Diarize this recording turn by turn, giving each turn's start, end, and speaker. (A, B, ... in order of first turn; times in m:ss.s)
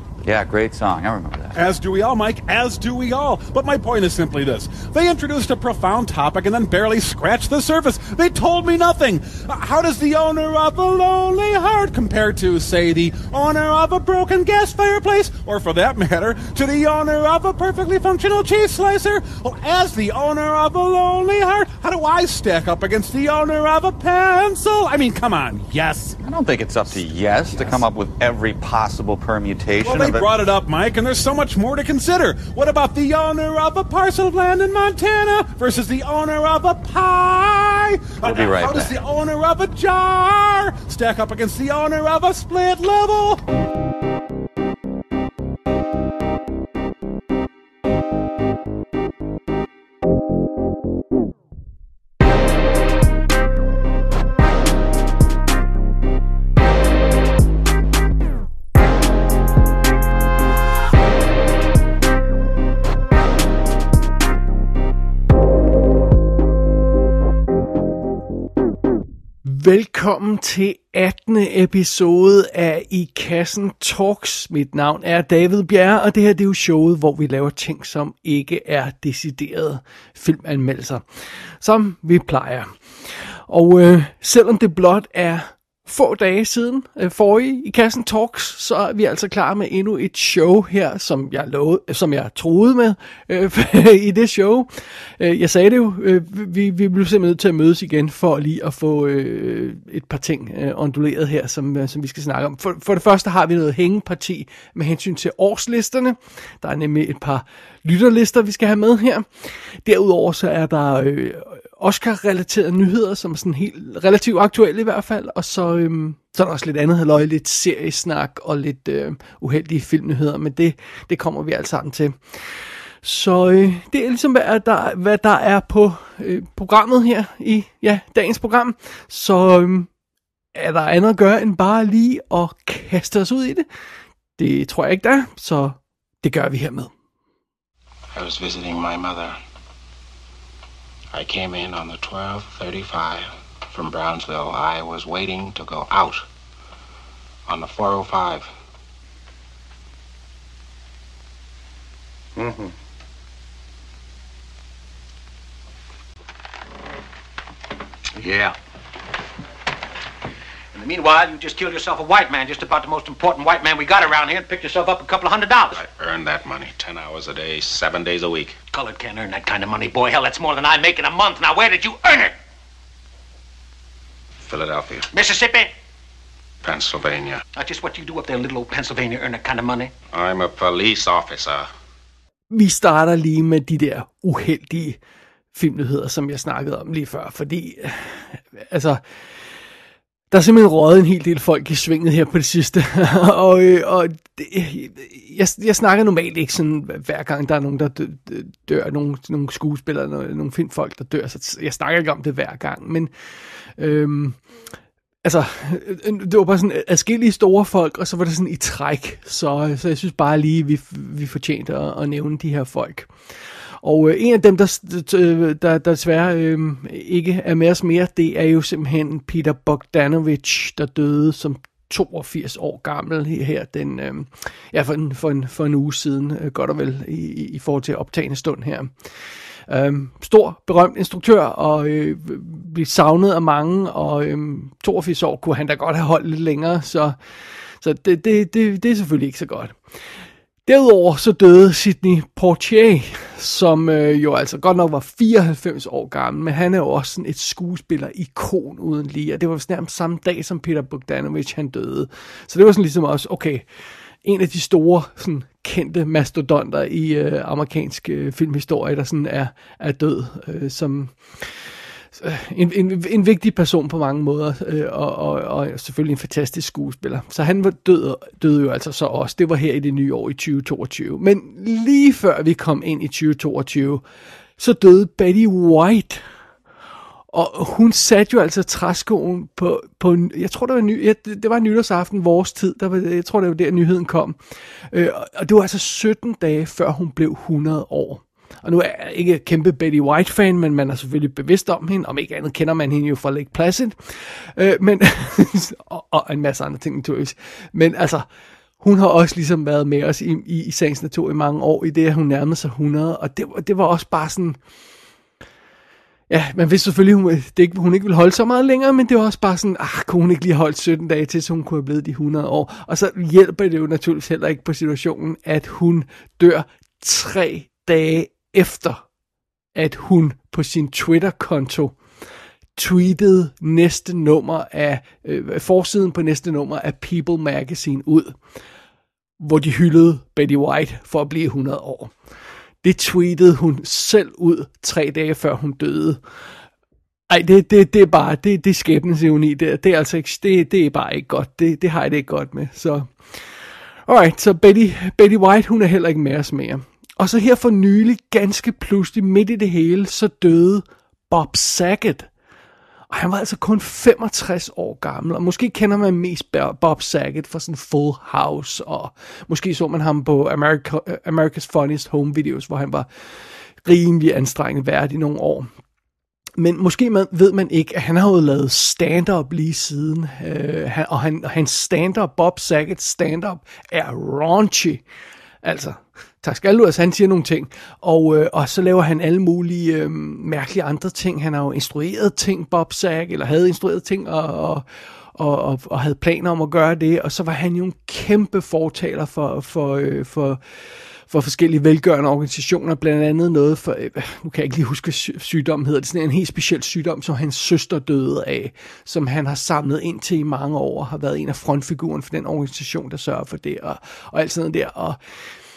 0:00.2-0:01.6 A
0:01.5-0:26.2 B
0:26.2-0:30.3 A
0:29.8-0:43.4 B
0:38.2-0:39.0 A
1:09.4-1:21.0 C
1:21.6-1:22.7 C
1:23.5-2:02.2 C
2:03.0-2:09.9 C
2:10.5-2:13.6 C
2:14.4-2:16.9 C
2:18.1-2:19.4 D
2:21.1-2:26.2 D
2:27.5-2:28.5 D
2:40.7-2:45.8 E
2:45.7-2:48.6 D
2:48.7-2:52.3 E
2:54.4-2:55.1 D
2:55.1-2:55.7 E
2:56.6-2:57.4 D
2:57.5-2:59.9 E
3:00.1-3:01.7 D
3:02.5-3:05.0 C
3:05.5-3:09.0 C
3:10.3-3:23.1 C
3:23.8-3:24.4 C
3:25.2-3:33.1 C
3:33.8-3:48.9 C
3:49.7-3:57.2 C
3:57.8-3:59.8 C
4:00.6-4:13.6 C
4:14.2-4:21.5 C
4:22.2-4:34.0 C
4:34.6-4:36.2 C
4:37.3-4:44.4 C
4:44.9-4:58.2 C
4:58.8-5:04.6 C
5:06.3-5:19.0 C
5:19.7-5:22.0 C
5:22.8-5:28.4 C
5:29.4-5:32.1 C
5:32.8-5:36.2 C
5:37.3-5:43.1 C
5:44.1-5:52.3 C
5:53.1-6:03.1 C
6:03.8-6:05.7 C
6:06.6-6:15.0 C
6:15.6-6:24.8 C
6:25.4-6:30.6 C
6:31.3-6:45.2 C